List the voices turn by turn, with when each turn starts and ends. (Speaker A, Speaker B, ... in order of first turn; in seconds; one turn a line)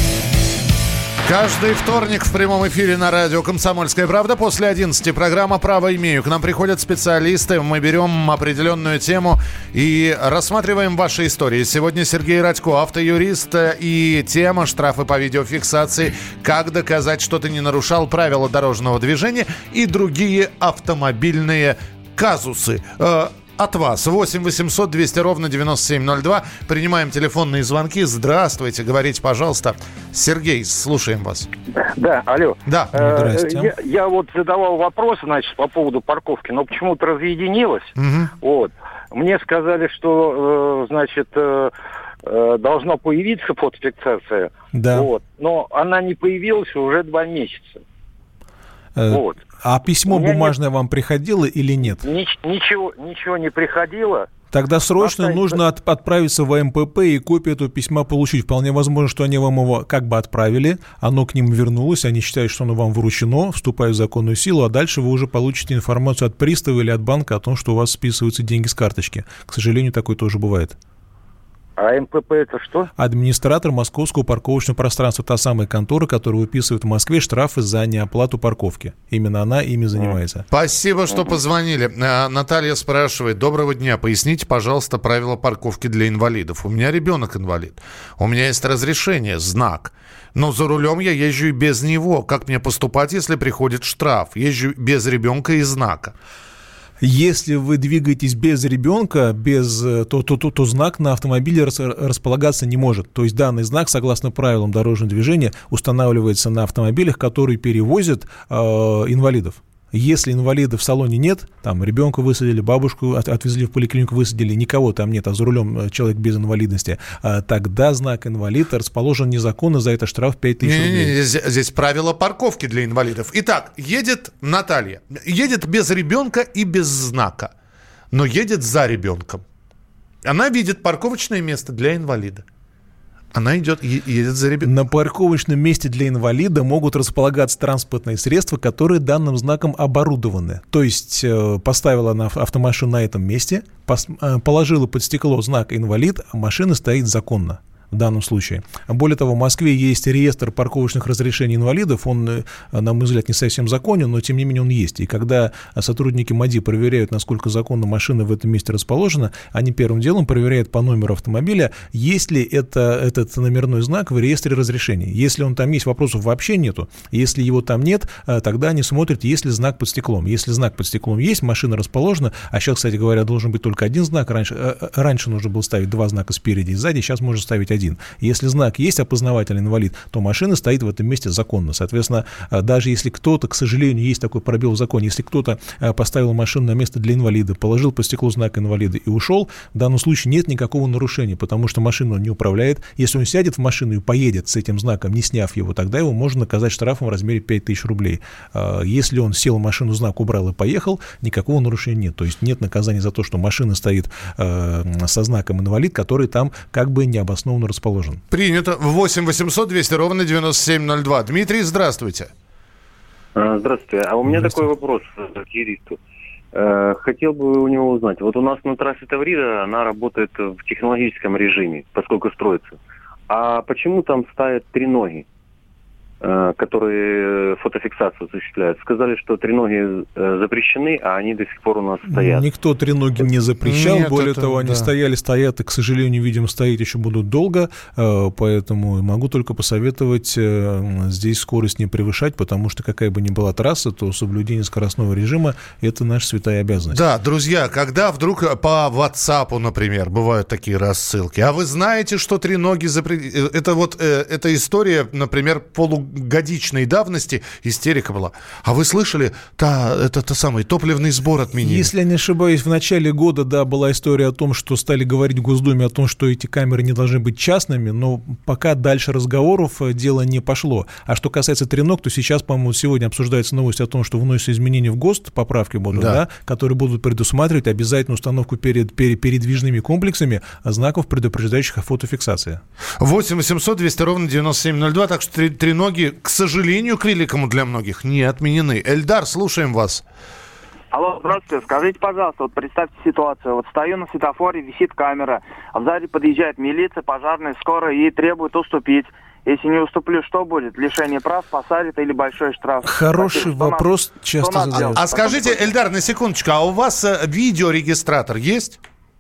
Speaker A: 1.2-31.5
Speaker B: 31.8-41.7
Speaker A: 32.6-32.9
Speaker C: 32.9-33.7
Speaker A: 38.0-38.3
Speaker B: 42.2-47.8
Speaker C: 44.7-45.1
Speaker C: 49.0-52.0
Speaker B: 49.1-49.4
Speaker B: 50.1-50.5
Speaker B: 51.9-54.3
Speaker C: 54.5-70.8
Speaker B: 55.0-55.6
Speaker B: 71.8-72.9
Speaker C: 73.0-80.4
Speaker A: 80.5-96.1
Speaker C: 97.0-121.1
Speaker A: 120.6-127.5
Speaker A: 128.1-129.4
Speaker A: 130.2-132.4
Speaker A: 133.3-134.7
Speaker C: 134.6-208.2
Speaker A: 208.3-212.3
Speaker D: 213.3-216.0
Speaker C: 214.2-214.6
Speaker D: 216.5-222.8
Speaker D: 223.3-225.2
Speaker D: 226.2-232.5
Speaker C: 232.1-247.0
Speaker A: 233.6-234.9
Speaker A: 246.9-261.9
Speaker C: 261.6-282.6
Speaker A: 275.9-276.2
Speaker A: 283.0-290.0
Speaker E: 290.9-305.7
Speaker C: 302.8-305.2
Speaker A: 304.8-308.8